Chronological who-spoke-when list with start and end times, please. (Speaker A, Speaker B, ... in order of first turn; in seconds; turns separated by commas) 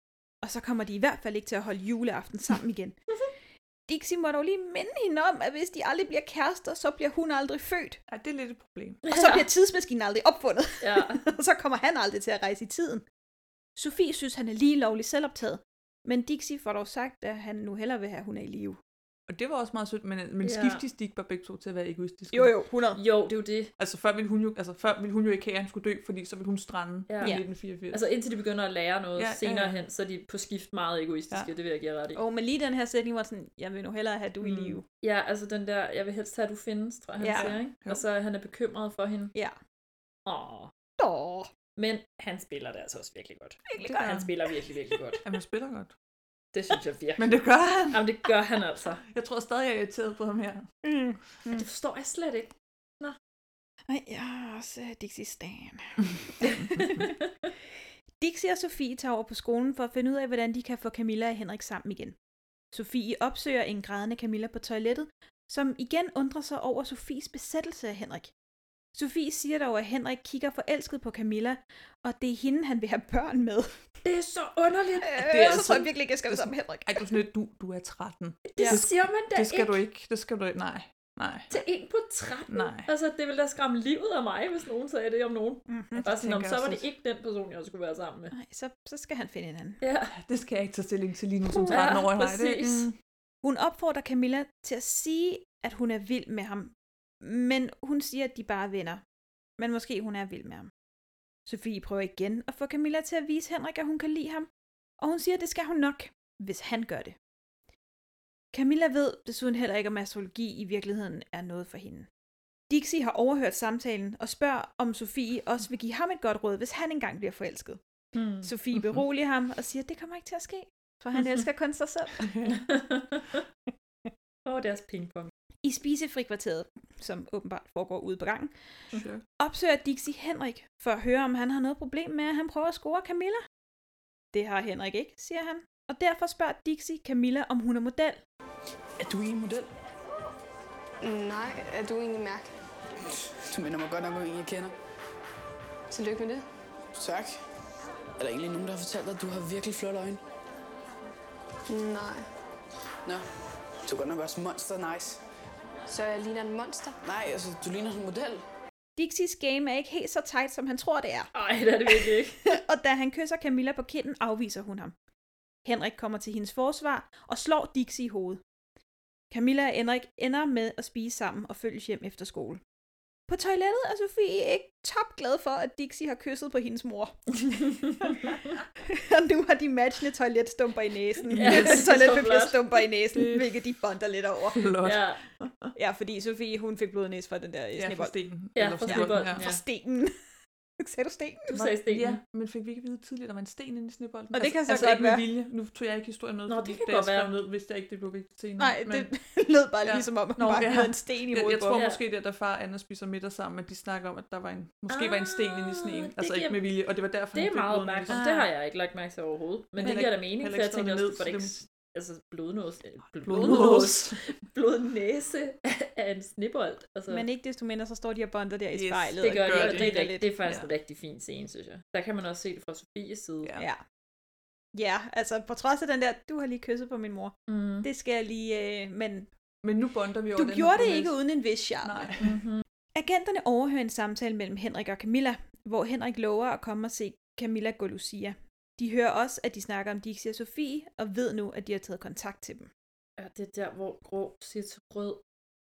Speaker A: 0.4-3.0, Speaker A: 3.9-8.0, Speaker B: 8.1-9.0, Speaker C: 9.1-9.5, Speaker A: 9.1-13.0, Speaker C: 10.8-11.2, Speaker A: 13.8-18.8, Speaker B: 19.3-22.5, Speaker C: 20.4-20.8, Speaker A: 22.3-23.0, Speaker C: 23.0-23.7, Speaker B: 23.8-28.0, Speaker C: 27.1-32.2, Speaker B: 29.2-29.8, Speaker A: 32.1-34.8, Speaker C: 34.5-39.3, Speaker A: 37.2-37.5, Speaker B: 37.3-38.0, Speaker C: 40.3-40.7, Speaker A: 41.0-41.5, Speaker C: 41.8-45.2, Speaker A: 43.7-44.2, Speaker B: 43.8-44.3, Speaker B: 45.2-45.9, Speaker C: 46.5-47.4, Speaker B: 47.2-48.0, Speaker C: 47.9-49.0, Speaker B: 49.1-50.7, Speaker A: 50.8-51.7, Speaker C: 51.5-53.2, Speaker A: 53.9-57.1, Speaker C: 56.8-57.1, Speaker A: 58.2-62.2, Speaker A: 62.7-68.3, Speaker A: 69.0-73.8, Speaker C: 74.0-75.9, Speaker A: 75.0-77.1, Speaker B: 75.3-81.5, Speaker C: 78.5-79.8, Speaker C: 81.5-88.3, Speaker B: 82.5-82.9, Speaker A: 85.7-86.0, Speaker B: 86.0-86.8, Speaker A: 88.3-89.8, Speaker C: 89.8-90.1, Speaker B: 90.1-93.0, Speaker A: 91.6-92.0, Speaker C: 91.7-92.9, Speaker A: 93.4-99.0, Speaker A: 99.6-100.7, Speaker A: 101.5-104.5, Speaker A: 105.0-107.2, Speaker A: 108.5-112.1, Speaker A: 112.7-117.8, Speaker C: 118.2-118.5, Speaker A: 118.4-122.3, Speaker B: 122.2-122.6, Speaker C: 122.5-123.4, Speaker C: 124.5-125.3, Speaker A: 125.6-128.5, Speaker B: 128.9-129.2, Speaker A: 129.4-133.4, Speaker A: 134.3-138.2, Speaker D: 139.0-139.7, Speaker E: 141.0-142.5, Speaker D: 143.5-144.7, Speaker E: 145.9-146.4, Speaker D: 146.9-147.3, Speaker D: 148.2-150.2, Speaker E: 151.7-152.3, Speaker D: 153.8-155.2, Speaker E: 155.9-157.0, Speaker D: 157.0-158.4, Speaker A: 159.0-161.3, Speaker C: 161.3-162.6, Speaker A: 161.9-164.9, Speaker A: 165.7-168.4, Speaker A: 169.3-172.6, Speaker A: 173.3-178.1, Speaker C: 177.5-178.4, Speaker A: 178.8-184.7, Speaker B: 181.3-181.9, Speaker C: 181.4-182.6, Speaker B: 183.1-183.6, Speaker B: 184.5-185.7, Speaker C: 184.8-185.2, Speaker A: 185.8-188.2, Speaker B: 187.8-189.4, Speaker C: 188.6-189.6, Speaker A: 188.9-190.2, Speaker A: 190.8-191.5, Speaker C: 191.5-192.2, Speaker B: 191.5-199.1, Speaker A: 194.3-195.3, Speaker C: 196.5-197.4, Speaker A: 198.6-201.8, Speaker B: 199.8-208.5, Speaker C: 201.7-202.0, Speaker C: 204.9-206.6, Speaker C: 207.3-217.2, Speaker B: 209.8-211.5, Speaker B: 213.2-214.2, Speaker A: 213.4-213.8, Speaker A: 217.1-220.3, Speaker B: 218.7-220.7, Speaker C: 219.2-223.6, Speaker A: 224.8-229.3, Speaker C: 227.5-227.9, Speaker B: 229.6-231.2, Speaker A: 230.4-232.1, Speaker B: 231.8-232.4, Speaker C: 232.2-232.6, Speaker A: 232.9-242.7, Speaker C: 243.2-245.2